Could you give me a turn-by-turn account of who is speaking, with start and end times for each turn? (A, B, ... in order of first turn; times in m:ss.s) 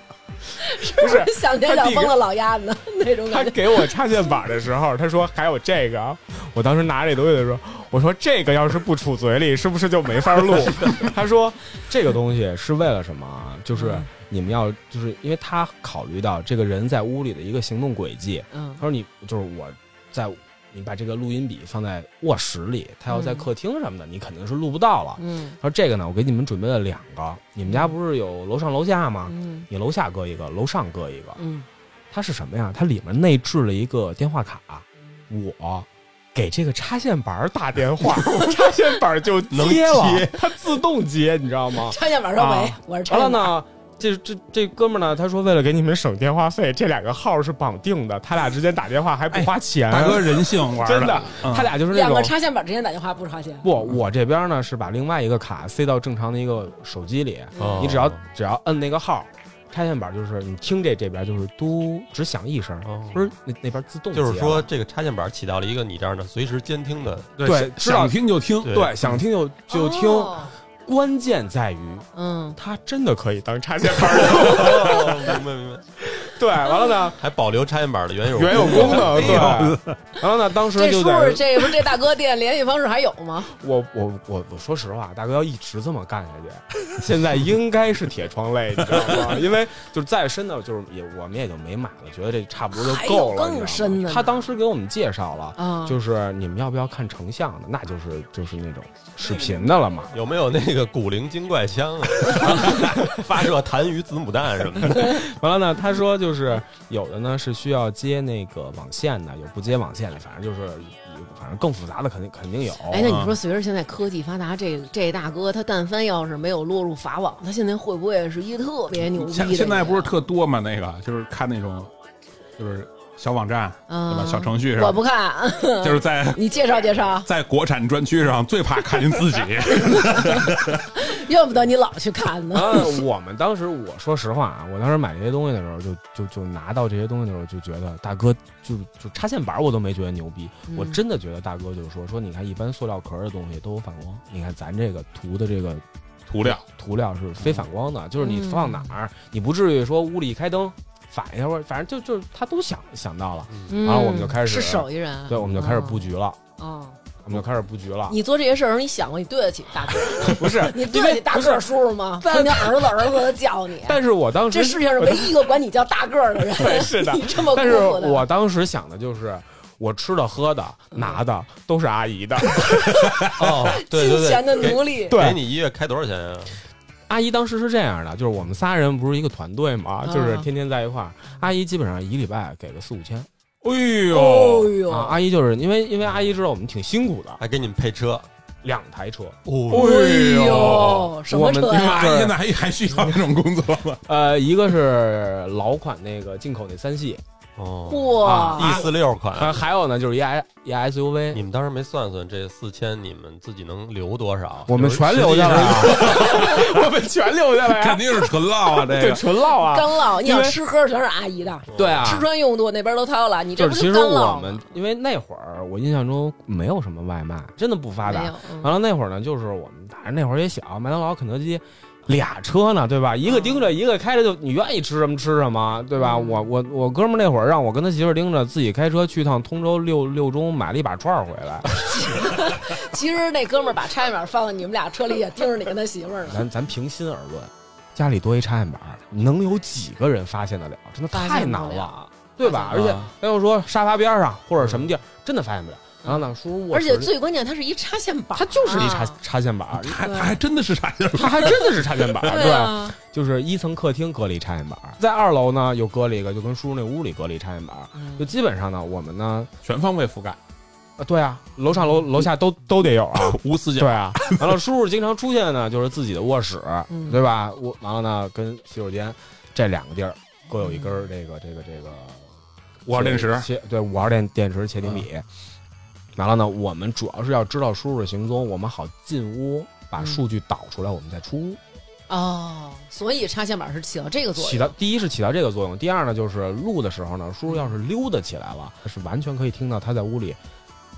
0:00.6-0:04.0 A
0:00.7-0:02.2 B
0:03.3-0:31.4 B
0:13.7-0:14.1 A
0:18.5-0:18.8 A
0:23.1-0:23.5 A
0:25.2-0:25.6 A
0:27.6-0:27.9 A
0:29.2-0:29.7 A
0:31.4-0:31.6 A
0:32.1-0:42.0 B
0:39.5-0:40.4 C
0:41.8-0:43.5 A
0:42.4-0:42.8 D
0:43.1-0:52.3 B
0:49.3-0:51.7 D
0:51.8-0:53.7 A
0:53.6-1:04.7 B
0:57.5-0:57.9 A
0:57.6-0:58.2 C
1:02.8-1:03.3 C
1:04.1-1:07.3 C
1:07.4-1:08.7 D
1:07.4-1:12.0 B
1:08.6-1:09.2 C
1:09.7-1:10.5 A
1:12.1-1:12.6 A
1:12.6-1:15.4 B
1:14.2-1:15.8 C
1:16.1-1:17.2 B
1:17.2-1:19.7 C
1:18.3-1:21.7 B
1:18.7-1:19.9 D
1:20.7-1:23.5 A
1:23.5-1:40.1 B
1:32.7-1:34.5 A
1:35.6-1:36.0 A
1:40.1-1:45.2 C
1:44.8-1:53.1 B
1:52.9-2:00.1 A
1:53.0-1:53.4 D
1:59.0-2:01.9 D
2:02.6-2:05.0 D
2:03.9-2:07.3 A
2:05.8-2:06.4 D
2:07.2-2:10.8 D
2:09.9-2:10.4 A
2:10.9-2:13.0 A
2:12.5-2:25.8 B
2:20.7-2:21.0 A
2:26.3-2:26.6 D
2:26.4-2:36.4 B
2:28.2-2:28.9 A
2:33.7-2:36.0 A
2:36.6-2:37.0 A
2:37.2-2:38.2 B
2:38.1-2:44.0 A
2:40.0-2:41.6 B
2:42.2-2:43.2 B
2:43.8-2:45.4 B
2:44.5-2:48.2 A
2:46.4-2:53.2 B
2:50.9-2:51.2 A
2:52.6-2:55.2 A
2:53.3-2:56.6 C
2:55.1-2:55.4 B
2:57.1-3:03.3 B
3:00.0-3:00.5 A
3:03.6-3:04.8 D
3:04.1-3:05.2 A
3:04.9-3:07.4 B
3:07.4-3:08.3 C
3:08.6-3:09.4 B
3:09.4-3:09.9 C
3:09.7-3:11.1 D
3:09.7-3:12.1 A
3:11.3-3:12.4 B
3:11.6-3:14.0 D
3:14.1-3:17.2 B
3:17.6-3:19.6 C
3:17.9-3:18.8 A
3:18.2-3:21.4 B
3:21.3-3:25.0 C
3:24.7-3:30.6 B
3:25.0-3:29.3 D
3:26.1-3:26.4 A
3:29.5-3:34.7 A
3:31.7-3:32.1 C
3:31.7-3:32.3 B
3:33.6-3:51.8 B
3:38.0-3:38.7 A
3:43.2-3:43.7 A
3:46.0-3:46.5 A
3:51.8-3:56.4 A
3:56.2-4:07.1 B
4:01.1-4:02.8 A
4:02.7-4:03.1 D
4:06.0-4:09.2 A
4:08.4-4:10.1 B
4:09.7-4:12.1 D
4:10.0-4:10.4 A
4:11.1-4:19.5 B
4:12.2-4:13.0 A
4:17.9-4:18.3 A
4:19.6-4:20.4 D
4:21.0-4:32.3 B
4:23.1-4:24.4 D
4:26.9-4:27.2 A
4:30.6-4:31.1 A
4:32.8-4:35.2 B
4:32.9-4:33.5 D
4:36.2-4:41.6 B
4:42.1-4:44.7 A
4:44.4-4:50.4 B
4:47.4-4:47.7 A